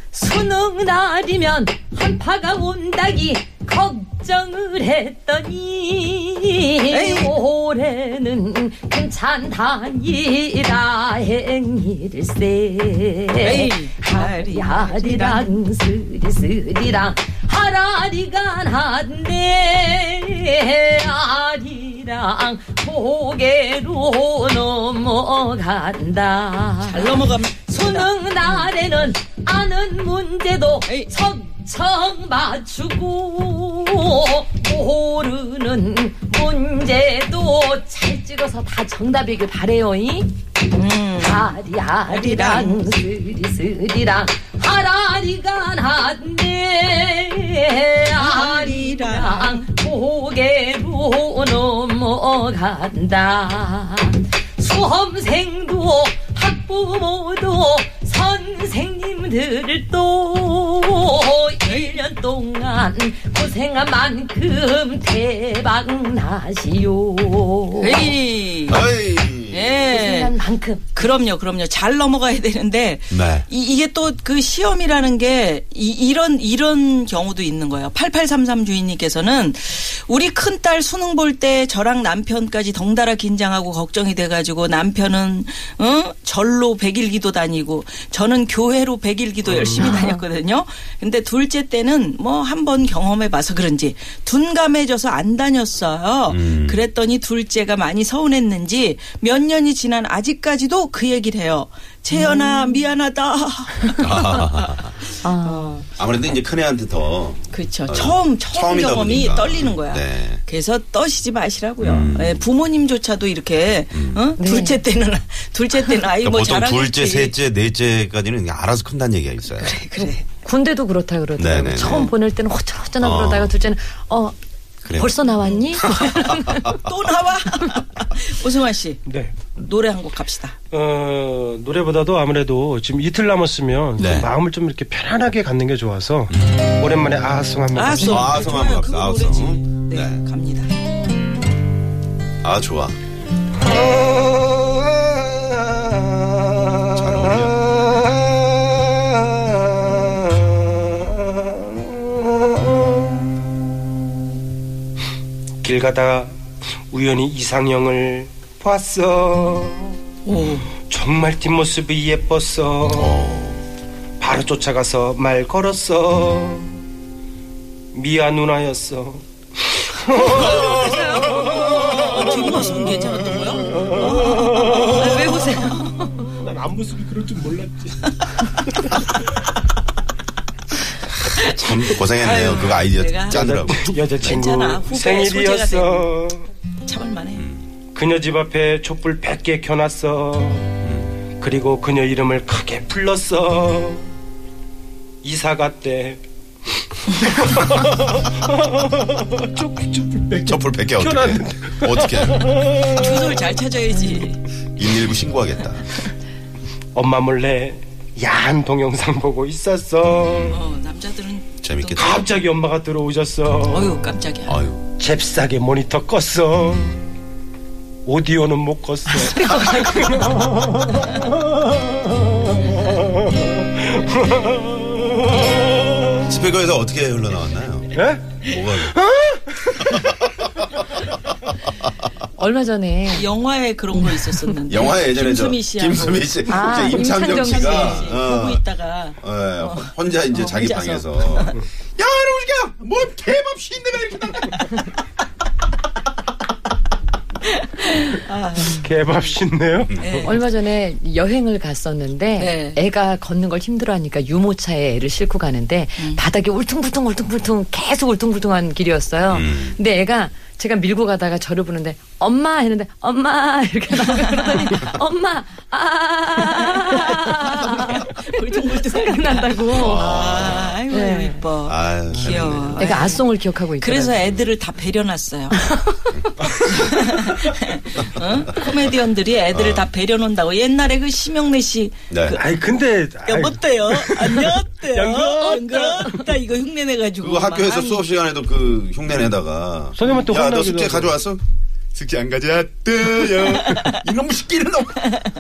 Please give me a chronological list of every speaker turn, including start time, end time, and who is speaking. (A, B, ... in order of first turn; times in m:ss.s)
0:00.1-0:40.3 A
0:06.9-0:07.3 B
0:13.4-0:15.5 B
0:26.8-0:28.7 B
0:30.9-0:31.1 B
0:40.7-0:42.8 B
0:41.2-1:08.1 A
0:48.2-0:49.6 B
1:07.8-1:10.4 B
1:08.7-1:09.8 C
1:09.9-1:11.0 A
1:11.0-1:45.9 B
1:13.1-1:13.4 C
1:29.5-1:29.8 D
1:29.8-1:30.2 A
1:36.3-1:36.9 C
1:42.1-1:42.8 A
1:44.0-1:45.0 C
1:45.2-1:45.8 A
1:46.0-1:50.4 C
1:47.5-1:57.4 B
1:51.8-1:52.4 C
1:53.9-1:54.2 C
1:54.4-1:54.8 A
1:56.2-1:59.8 C
1:59.4-2:00.3 B
2:00.0-2:04.4 A
2:01.4-2:02.2 C
2:01.8-2:02.1 B
2:03.0-2:03.5 C
2:04.8-2:06.8 C
2:04.9-2:06.8 A
2:06.8-2:10.6 B
2:09.1-2:09.3 D
2:10.7-2:18.6 D
2:14.0-2:14.3 C
2:16.3-2:16.6 C
2:17.7-2:20.7 B
2:18.0-2:20.2 C
2:22.4-2:23.0 C
2:23.6-2:33.3 D
2:26.9-2:27.6 C
2:35.6-2:36.4 D
2:36.9-2:40.0 D
2:40.2-2:40.7 B
2:40.3-2:40.6 C
2:40.8-2:43.2 D
2:42.9-2:43.6 C
2:44.2-2:46.8 D
2:47.9-2:55.2 D
2:50.2-2:55.9 B
2:50.2-2:51.4 A
2:53.9-2:56.3 A
2:56.2-2:59.1 D
3:01.4-3:04.4 C
3:01.6-3:03.5 B
3:03.3-3:06.5 D
3:04.2-3:06.2 B
3:06.8-3:07.5 B
3:07.4-3:07.7 C
3:07.9-3:10.8 D
3:10.8-3:11.2 C
3:11.4-3:14.1 D
3:15.2-3:16.2 D
3:17.0-3:23.5 D
3:20.4-3:22.7 C
3:22.9-3:24.4 B
3:24.8-3:26.0 C
3:26.9-3:30.6 D
3:30.3-3:30.6 C
3:30.5-3:32.4 B
3:31.6-3:32.3 C
3:32.0-3:34.0 D
3:33.7-3:34.6 B
3:34.5-3:34.9 C
3:35.0-3:37.1 D
3:38.0-3:46.2 D
3:39.1-3:40.5 A
3:46.3-3:49.0 C
3:47.9-3:50.0 D
3:49.8-3:50.6 C
3:52.4-3:53.3 A
3:53.1-4:01.6 B
3:54.7-3:58.6 C
3:56.5-3:58.2 A
3:59.2-4:04.8 C
4:07.5-4:09.3 B
4:08.7-4:10.4 D
4:09.9-4:10.2 C
4:10.0-4:10.4 B
4:10.2-4:30.2 A
4:12.4-4:12.8 B
4:19.3-4:19.8 C
4:24.2-4:24.8 B
4:27.6-4:33.2 B
4:29.7-4:30.8 C
4:30.9-4:31.4 A
4:31.6-4:32.9 C
4:32.8-4:34.2 A
4:33.8-4:35.6 B
4:34.2-4:34.5 C
4:35.5-4:36.8 A
4:36.6-4:42.5 B
4:39.5-4:39.9 C
4:42.1-4:42.4 C
4:42.3-4:46.2 D
4:43.2-4:48.1 B
4:47.2-4:51.4 C
4:49.9-4:51.2 D
4:52.0-4:55.2 C